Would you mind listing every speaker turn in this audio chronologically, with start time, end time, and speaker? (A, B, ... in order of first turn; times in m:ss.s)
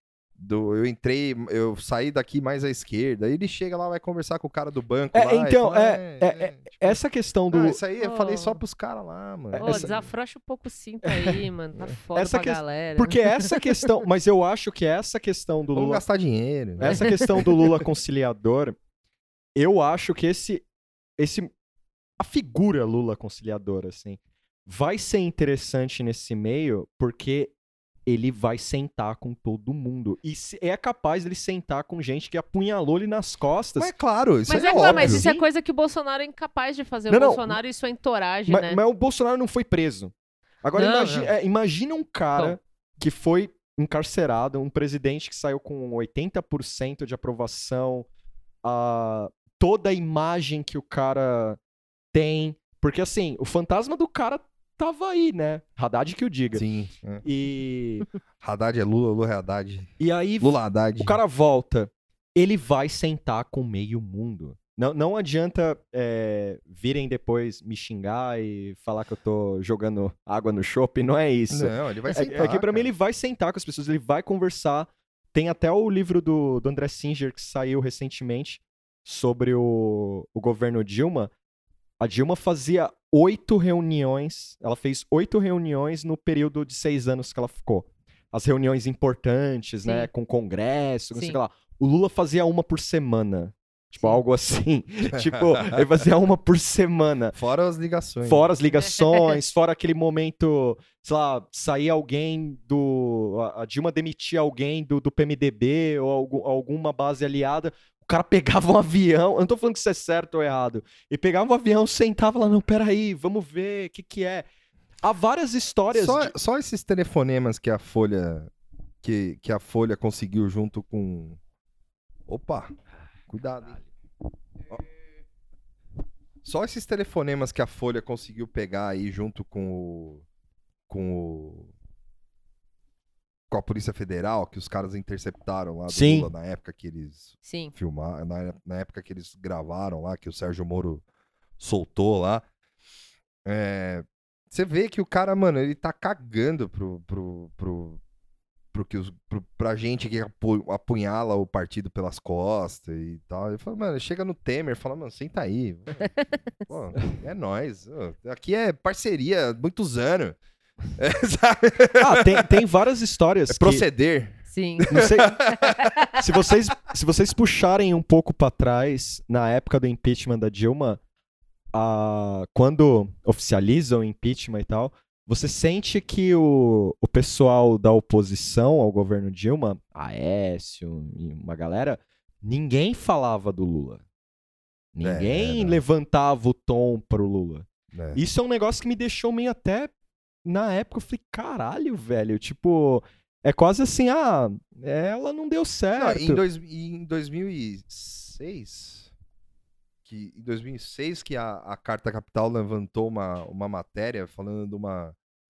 0:00.4-0:07.0 A
0:05.1-0:07.8 B
0:07.5-0:09.9 A
0:08.0-0:08.6 C
0:09.5-0:09.9 B
0:09.6-0:13.9 C
0:11.0-0:11.4 B
0:12.1-0:16.0 B
0:15.7-0:17.6 A
0:16.8-0:18.8 B
0:16.8-0:17.2 C
0:19.6-0:20.6 B
0:21.2-0:21.5 B
0:22.2-0:27.5 B
0:28.1-0:33.9 B
0:33.8-0:35.3 A
0:34.5-0:38.8 C
0:34.7-0:35.4 B
0:37.1-0:37.6 B
0:38.5-0:40.1 B
0:40.6-0:48.1 B
0:40.7-0:41.3 C
0:48.6-0:51.6 B
0:52.1-0:56.6 B
0:56.5-0:57.2 A
0:57.2-0:58.1 B
0:58.4-1:01.2 A
1:00.0-1:21.3 B
1:11.5-1:12.9 A
1:22.0-1:37.4 B
1:29.8-1:30.1 C
1:35.1-1:35.8 A
1:37.3-1:38.5 A
1:38.2-1:54.4 B
1:38.8-1:39.3 C
1:55.0-1:56.3 B
1:55.9-1:58.5 A
1:59.0-2:01.4 A
2:02.3-2:02.7 A
2:03.3-2:03.8 A
2:06.4-2:10.2 A
2:10.9-2:11.7 A
2:13.5-2:21.0 A
2:15.9-2:16.3 B
2:17.4-2:17.7 C
2:21.6-2:22.4 A
2:23.4-2:28.0 A
2:28.7-2:36.1 A
2:36.0-2:36.7 C
2:36.7-2:40.4 A
2:41.0-2:42.5 A
2:42.0-2:43.8 B
2:43.5-2:45.9 A
2:44.5-2:46.1 C
2:44.9-2:45.4 B
2:46.1-2:51.0 B
2:51.7-3:04.0 B
3:04.9-3:09.9 B
3:05.0-3:05.8 A
3:07.9-3:08.2 A
3:10.4-3:16.4 B
3:16.0-3:19.1 A
3:20.0-3:25.2 A